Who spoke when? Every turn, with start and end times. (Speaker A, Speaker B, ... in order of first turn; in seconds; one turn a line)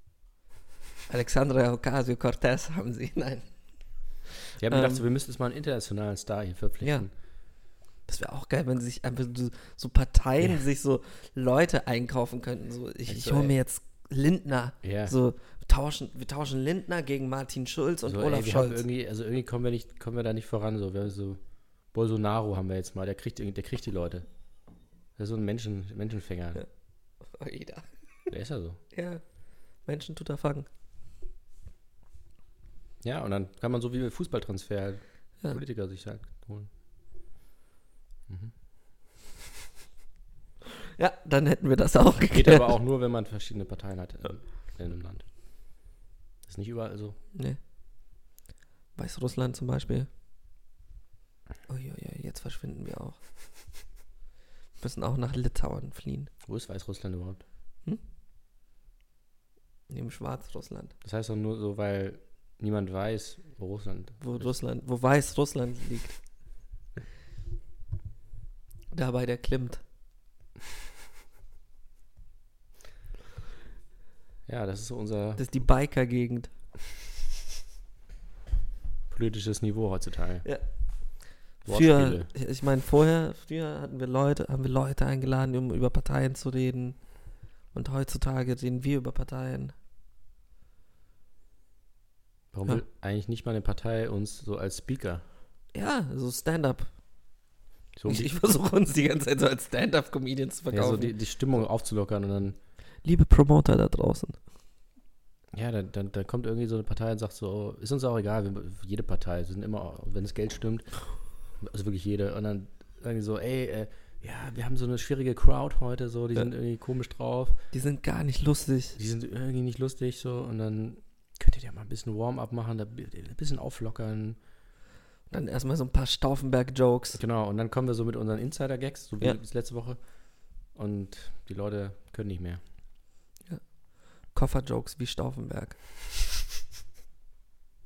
Speaker A: 1.1-3.5
Speaker B: 4.6-7.1
Speaker A: 4.7-5.0
Speaker A: 6.8-7.1
Speaker A: 8.1-18.8
Speaker B: 13.1-13.5
Speaker B: 14.8-15.1
Speaker B: 18.0-21.4
Speaker B: 21.9-24.2
Speaker B: 25.1-26.6
Speaker A: 27.3-27.9
Speaker B: 28.3-28.8
Speaker A: 28.9-29.2
Speaker A: 29.8-30.7
Speaker B: 33.0-36.7
Speaker B: 38.3-38.5
Speaker A: 41.0-42.7
Speaker B: 42.3-45.2
Speaker B: 46.5-47.2
Speaker A: 49.0-50.1
Speaker A: 51.7-53.2
Speaker A: 54.8-56.3
Speaker B: 56.5-57.4
Speaker A: 59.9-60.9
Speaker B: 61.0-64.5
Speaker A: 64.2-66.2
Speaker A: 68.9-69.8
Speaker B: 74.5-75.4
Speaker A: 75.4-76.5
Speaker B: 79.1-80.4
Speaker B: 81.6-82.3
Speaker A: 81.6-87.0
Speaker A: 87.7-89.7
Speaker B: 92.5-95.2
Speaker A: 95.7-96.9
Speaker B: 98.0-98.3
Speaker A: 98.0-101.1
Speaker B: 100.7-102.6
Speaker A: 103.0-104.4
Speaker B: 105.5-110.9
Speaker B: 111.6-117.6
Speaker A: 117.7-119.0
Speaker B: 119.0-124.4
Speaker A: 125.3-127.2
Speaker B: 127.1-130.0
Speaker B: 130.7-132.6
Speaker A: 134.3-135.8